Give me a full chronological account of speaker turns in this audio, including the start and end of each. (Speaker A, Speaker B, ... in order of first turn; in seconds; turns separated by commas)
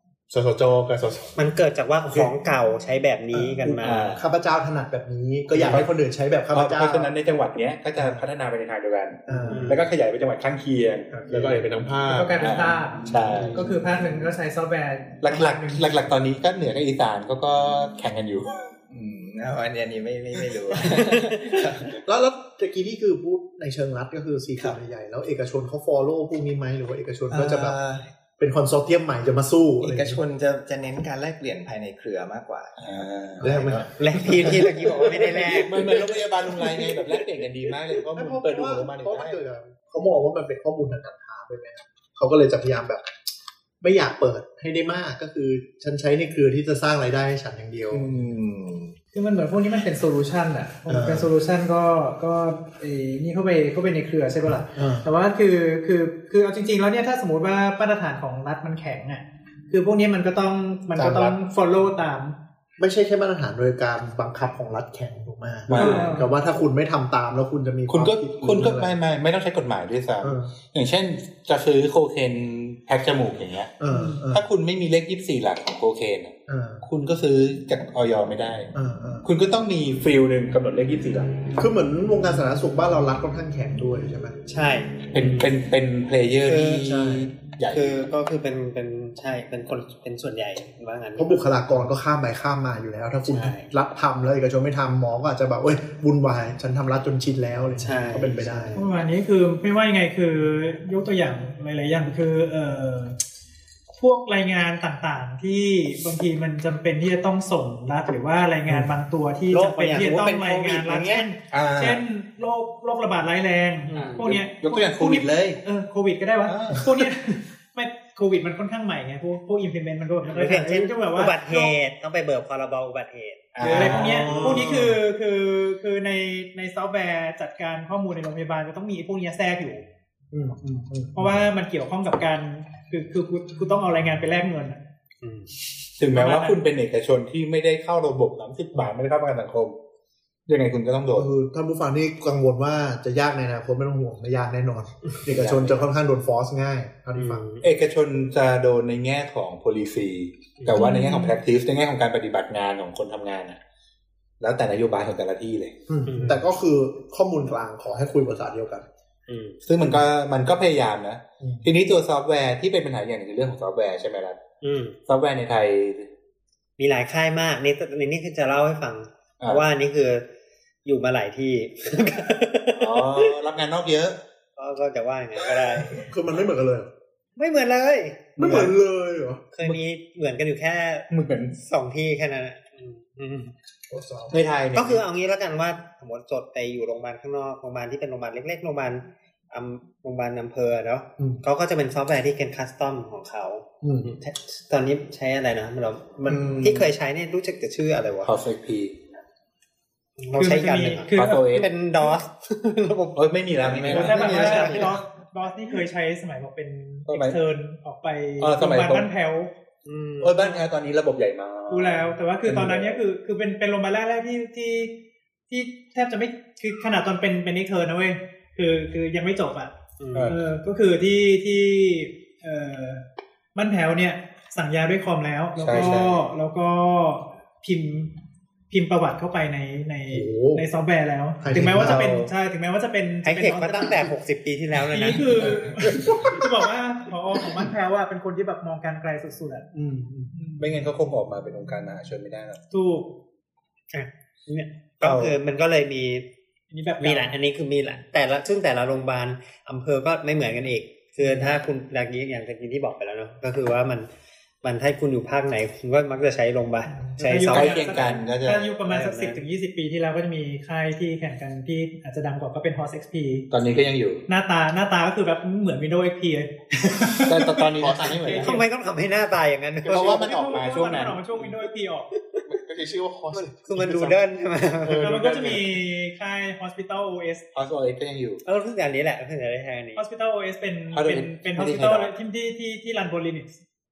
Speaker A: 0.3-1.3, Speaker B: 1.4-4.1, Speaker C: 3.3-7.1, Speaker D: 3.8-4.3, Speaker D: 5.5-5.9, Speaker D: 6.5-11.1, Speaker C: 8.0-8.3, Speaker C: 9.3-9.8, Speaker B: 9.5-9.9, Speaker C: 11.1-11.6, Speaker A: 11.2-12.6, Speaker E: 12.1-16.0, Speaker D: 12.4-13.7, Speaker D: 15.2-18.7, Speaker F: 18.9-22.0, Speaker C: 22.0-27.8, Speaker F: 27.3-28.1, Speaker C: 28.4-30.2, Speaker F: 29.8-34.7, Speaker D: 32.8-33.8, Speaker C: 33.4-33.9, Speaker B: 34.0-35.8, Speaker A: 34.9-37.3, Speaker D: 35.5-39.4, Speaker C: 38.1-43.2, Speaker C: 43.8-48.1, Speaker F: 47.9-49.0, Speaker E: 49.1-62.4, Speaker C: 50.9-51.3, Speaker C: 54.7-55.1, Speaker D: 61.0-61.3, Speaker C: 61.0-61.3, Speaker C: 62.8-69.0, Speaker D: 65.7-66.2, Speaker E: 65.8-66.3, Speaker D: 67.9-73.8, Speaker C: 70.2-70.5, Speaker C: 73.8-74.4, Speaker E: 73.9-74.2, Speaker D: 74.3-78.7, Speaker C: 76.5-76.8, Speaker C: 78.7-79.3, Speaker D: 79.2-81.5, Speaker C: 81.6-84.4, Speaker B: 84.5-85.5, Speaker D: 85.1-88.0, Speaker B: 86.5-86.9, Speaker C: 86.8-87.3, Speaker B: 87.7-91.4, Speaker C: 91.2-98.8, Speaker B: 93.3-93.7, Speaker B: 97.8-98.8, Speaker E: 98.8-103.2, Speaker E: 103.9-121.8, Speaker B: 109.5-111.2, Speaker D: 111.5-112.0, Speaker B: 113.9-114.3, Speaker D: 114.2-115.6, Speaker D: 116.4-117.1, Speaker B: 120.3-124.0, Speaker D: 123.5-124.7, Speaker C: 123.6-124.9, Speaker E: 123.6-129.8, Speaker C: 130.3-131.4, Speaker E: 131.1-134.8, Speaker B: 135.2-135.5, Speaker D: 136.0-139.7, Speaker E: 136.0-136.6, Speaker D: 140.5-141.3, Speaker C: 141.1-147.4, Speaker D: 145.3-145.9, Speaker B: 147.2-147.6, Speaker D: 147.6-153.6, Speaker E: 150.7-151.4, Speaker D: 154.4-155.8, Speaker C: 155.9-158.9, Speaker B: 156.1-156.4, Speaker B: 159.3-159.6, Speaker D: 159.6-164.4, Speaker C: 161.4-161.7, Speaker B: 164.6-164.9, Speaker D: 165.1-166.1, Speaker B: 166.8-170.2, Speaker D: 169.4-169.6, Speaker B: 170.8-173.3, Speaker D: 172.7-174.2, Speaker B: 174.6-176.0, Speaker C: 175.8-176.9, Speaker B: 177.3-178.7, Speaker D: 178.4-178.7, Speaker C: 178.4-179.4, Speaker B: 179.5-183.5, Speaker D: 181.1-181.5, Speaker C: 183.9-184.4, Speaker D: 184.3-185.0, Speaker B: 184.7-198.3, Speaker C: 193.8-194.1, Speaker C: 196.3-196.8, Speaker D: 198.2-198.9, Speaker B: 200.2-204.9, Speaker E: 200.3-201.6, Speaker D: 201.1-201.7, Speaker D: 203.1-204.8, Speaker E: 203.8-209.5, Speaker D: 207.1-207.4, Speaker D: 208.4-209.1, Speaker B: 209.8-210.4, Speaker D: 210.2-213.0, Speaker E: 211.7-214.9, Speaker E: 215.5-219.7, Speaker B: 220.0-220.3, Speaker D: 220.1-220.4, Speaker E: 220.3-223.0, Speaker E: 223.5-228.1, Speaker D: 225.6-226.2, Speaker E: 228.7-234.1, Speaker A: 230.1-230.6, Speaker C: 231.4-232.1, Speaker D: 231.7-232.3, Speaker B: 233.2-236.2, Speaker E: 234.9-239.7, Speaker C: 239.7-240.3, Speaker E: 240.3-240.7, Speaker D: 240.6-242.6, Speaker E: 242.7-243.2, Speaker B: 243.9-246.3, Speaker D: 245.0-245.4, Speaker E: 246.7-247.4, Speaker B: 247.0-254.1, Speaker B: 254.6-257.8, Speaker E: 256.9-263.5, Speaker D: 257.5-258.8, Speaker B: 258.8-259.4, Speaker D: 263.5-264.2, Speaker E: 264.3-268.6, Speaker D: 267.2-268.6, Speaker A: 267.8-268.5, Speaker B: 268.3-270.3, Speaker A: 269.8-270.6, Speaker D: 269.9-271.2, Speaker E: 269.9-272.2, Speaker A: 272.4-274.2, Speaker B: 273.3-275.1, Speaker A: 274.8-275.8, Speaker E: 275.0-277.5, Speaker D: 277.5-278.4, Speaker B: 278.4-280.0, Speaker E: 279.9-283.6, Speaker D: 280.9-282.1